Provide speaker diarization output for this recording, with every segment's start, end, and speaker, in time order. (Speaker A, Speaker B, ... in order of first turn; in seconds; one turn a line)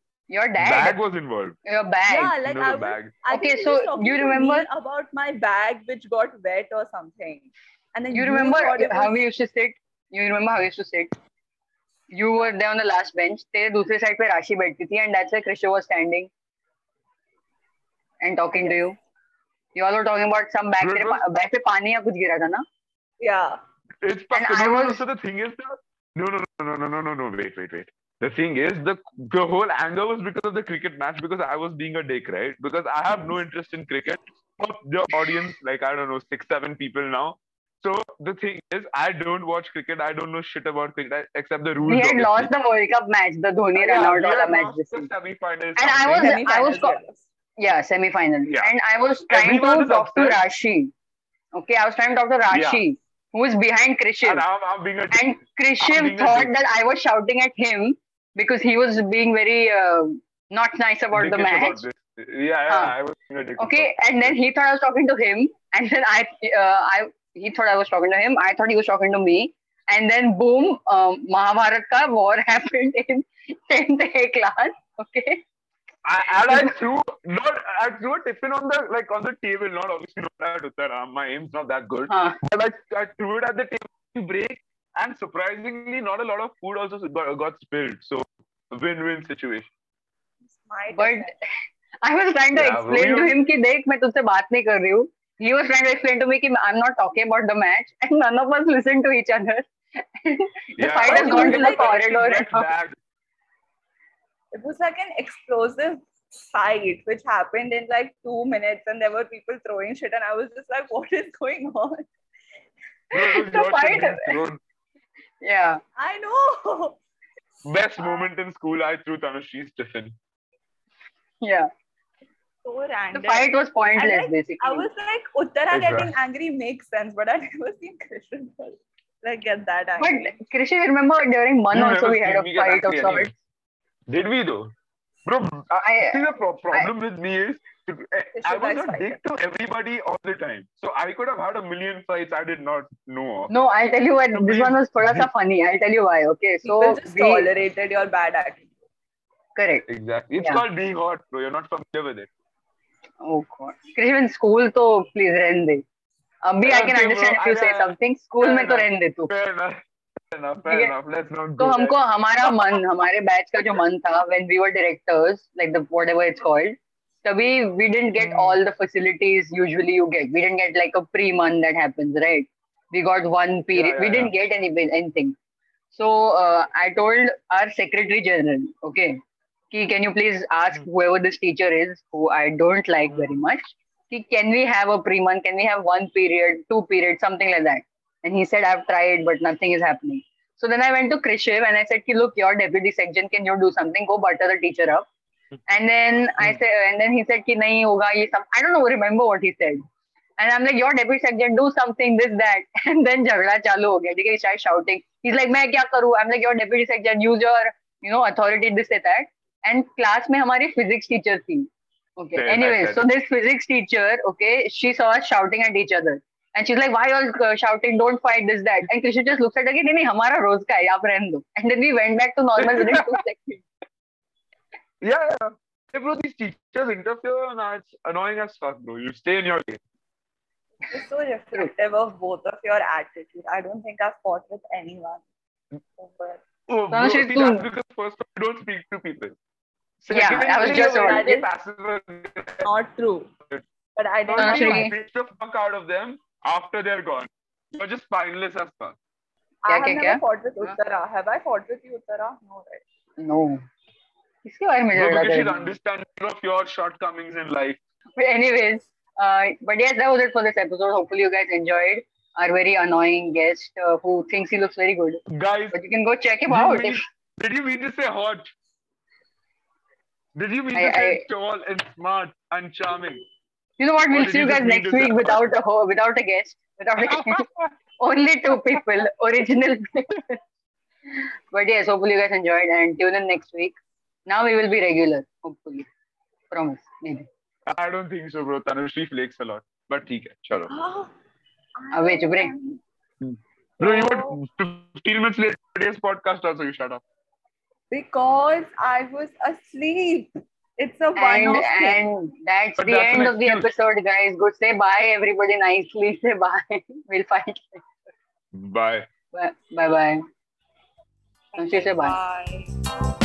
Speaker A: 0.3-1.0
Speaker B: 0.6-1.6
Speaker A: 1.6-2.3
Speaker C: 2.1-9.2
Speaker B: 2.4-3.1
Speaker A: 3.3-4.7
Speaker A: 8.1-11.1
Speaker A: 12.1-16.3
Speaker A: 18.2-18.9
Speaker C: 18.5-18.8
Speaker A: 19.7-22.6
Speaker B: 20.8-21.2
Speaker C: 23.2-23.6
Speaker B: 24.0-42.5
Speaker A: 24.3-25.0
Speaker A: 41.8-45.1
Speaker B: 43.7-46.4
Speaker A: 45.8-47.0
Speaker C: 46.2-47.3
Speaker A: 47.6-50.9
Speaker B: 48.5-48.7
Speaker B: 49.3-50.4
Speaker A: 51.5-54.4
Speaker B: 52.5-52.8
Speaker B: 54.2-56.5
Speaker A: 55.1-61.8
Speaker B: 61.1-64.3
Speaker A: 62.7-62.9
Speaker A: 63.6-75.4
Speaker B: 76.0-89.7
Speaker A: 82.1-82.4
Speaker C: 90.4-91.3
Speaker A: 90.9-91.3
Speaker A: 92.0-102.7
Speaker B: 92.5-93.4
Speaker B: 100.8-103.0
Speaker C: 101.0-102.0
Speaker C: 104.5-112.1
Speaker B: 113.1-114.6
Speaker A: 113.2-114.4
Speaker A: 115.4-115.8
Speaker C: 116.0-117.0
Speaker B: 117.6-120.2
Speaker C: 118.0-118.3
Speaker A: 121.4-121.7
Speaker C: 122.6-130.3
Speaker A: 123.1-124.9
Speaker B: 125.7-126.1
Speaker A: 130.0-133.3
Speaker B: 131.7-133.3
Speaker B: 134.1-134.7
Speaker B: 135.2-143.5
Speaker A: 135.8-136.9
Speaker C: 138.4-139.2
Speaker A: 143.5-147.5
Speaker B: 144.3-145.3
Speaker C: 146.6-148.7
Speaker A: 149.6-149.8
Speaker B: 149.9-152.3
Speaker A: 153.2-155.8
Speaker A: 156.4-159.3
Speaker B: 156.6-162.8
Speaker A: 160.7-160.9
Speaker A: 161.6-175.3
Speaker B: 168.2-168.6
Speaker B: 173.7-174.4
Speaker A: 175.9-179.2
Speaker A: 179.7-195.1
Speaker A: 195.7-199.8
Speaker A: 200.4-223.6
Speaker B: 212.3-213.1
Speaker B: 222.6-223.2
Speaker B: 225.0-229.8
Speaker C: 230.8-235.2
Speaker C: 236.0-236.4
Speaker B: 236.7-239.3
Speaker A: 236.9-237.6
Speaker B: 240.0-242.7
Speaker A: 240.1-241.2
Speaker C: 240.6-241.5
Speaker C: 242.6-243.3
Speaker C: 243.9-244.9
Speaker B: 244.3-249.0
Speaker A: 244.4-244.9
Speaker C: 249.7-252.8
Speaker A: 249.7-250.7
Speaker A: 253.2-253.6
Speaker A: 254.4-255.7
Speaker B: 254.9-257.8
Speaker A: 258.2-267.0
Speaker B: 265.3-265.8
Speaker B: 266.5-268.5
Speaker B: 270.4-273.2
Speaker A: 270.7-271.2
Speaker A: 273.8-277.5
Speaker B: 274.1-275.4
Speaker B: 277.0-277.7
Speaker A: 278.0-280.4
Speaker A: 281.1-283.8
Speaker A: 284.3-285.9
Speaker A: 286.5-287.3
Speaker B: 287.6-290.7
Speaker C: 290.7-291.1
Speaker C: 291.8-292.8
Speaker A: 291.9-292.5
Speaker B: 293.2-297.0
Speaker C: 293.8-294.4
Speaker C: 297.9-302.0
Speaker A: 301.2-307.8
Speaker B: 302.8-303.7
Speaker B: 308.5-309.1
Speaker A: 309.3-310.2
Speaker C: 311.5-312.7
Speaker A: 311.6-312.1